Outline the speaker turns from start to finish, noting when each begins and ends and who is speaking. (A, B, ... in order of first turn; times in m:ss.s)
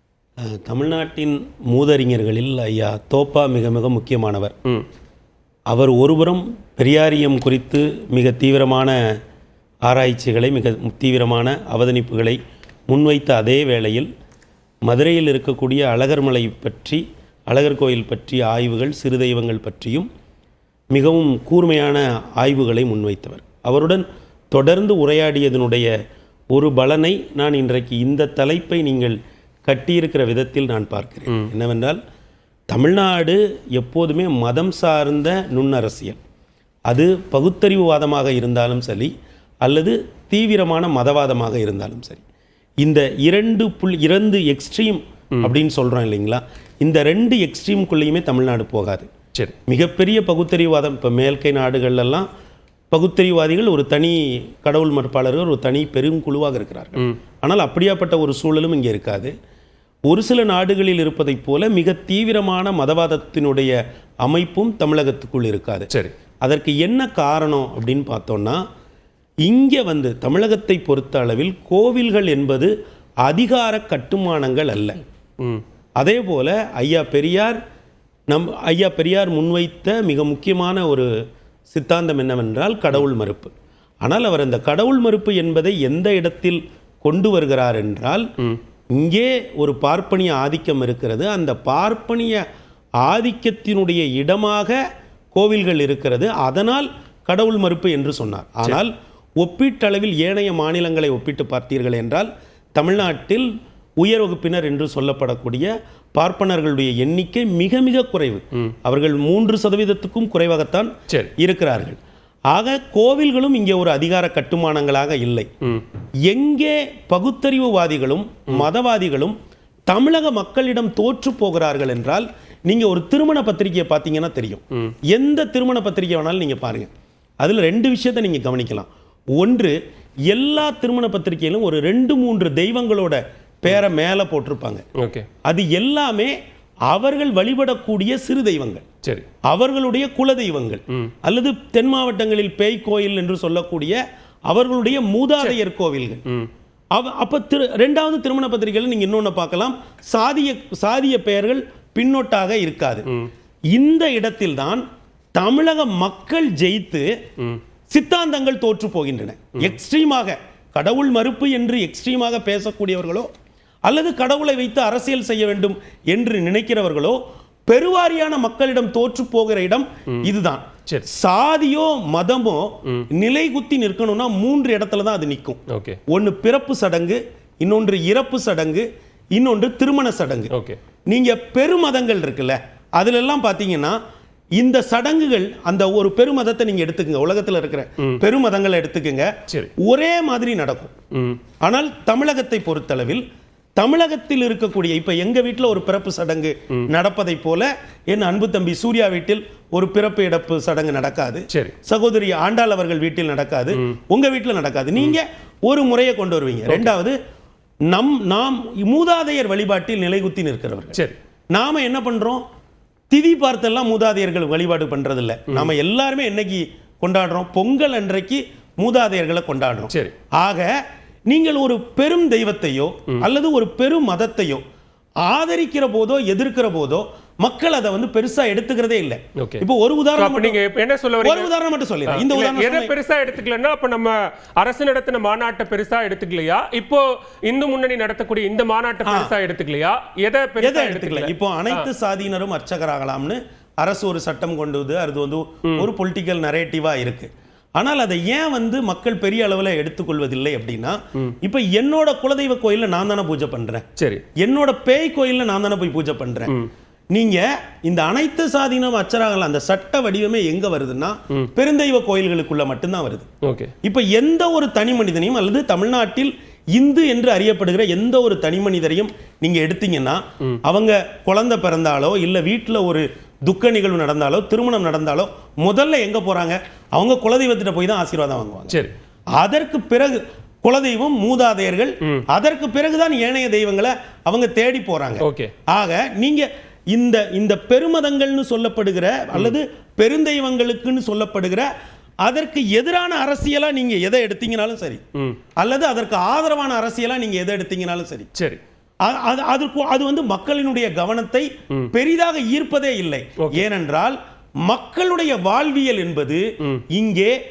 0:00.4-0:04.5 A
0:05.7-0:09.0 A
0:09.8-0:14.1 A
0:14.8-0:20.1 A
0:20.9-0:26.0 A
0:26.5-0:32.0 A
0:32.7-0:36.2 A
0:36.9-0:39.1 A
0:39.6-0:42.2 A
0:42.8-0:49.1 A
0:49.7-0:52.3 A
0:52.9-0:59.3 A
1:00.1-1:05.9 A
1:06.4-1:08.6 A
1:09.4-1:12.7 A
1:13.2-1:15.0 A
1:16.0-1:17.6 A
1:18.3-1:21.1 A
1:21.7-1:28.3 A
1:28.9-1:32.4 A
1:33.0-1:34.8 A
1:35.3-1:52.0 A
1:52.5-1:55.5 A
1:56.2-1:59.4 A
1:59.9-2:06.9 A
2:07.4-2:09.8 A
2:10.3-2:14.8 A
2:15.0-2:15.2 B
2:15.4-2:16.3 A
2:16.9-2:18.8 A
2:19.5-2:26.2 A
2:26.9-2:33.0 A
2:33.7-2:34.8 A
2:35.3-2:37.1 A
2:37.9-2:43.3 A
2:43.8-3:00.5 A
2:55.7-2:56.0 B
3:00.5-3:00.8 B
3:01.1-3:04.0 A
3:04.6-3:10.9 A
3:11.1-3:11.4 B
3:11.6-3:13.2 A
3:13.8-3:27.2 A
3:21.5-3:21.7 B
3:26.7-3:26.9 B
3:27.9-3:31.0 A
3:31.5-3:32.4 A
3:33.1-3:40.7 A
3:41.3-3:44.6 A
3:45.2-3:50.6 A
3:49.4-3:49.6 B
3:50.2-3:51.5 B
3:51.2-3:52.9 A
3:52.1-4:01.9 B
3:59.0-3:59.3 A
4:00.6-4:13.8 A
4:14.0-4:14.2 B
4:14.4-4:16.5 A
4:17.1-4:23.3 A
4:23.4-4:23.7 B
4:23.8-4:38.8 A
4:39.4-4:51.7 A
4:45.2-4:45.5 B
4:52.2-4:55.0 A
4:55.6-4:58.3 A
4:58.3-4:58.6 B
4:59.0-5:07.4 A
5:03.4-5:03.6 B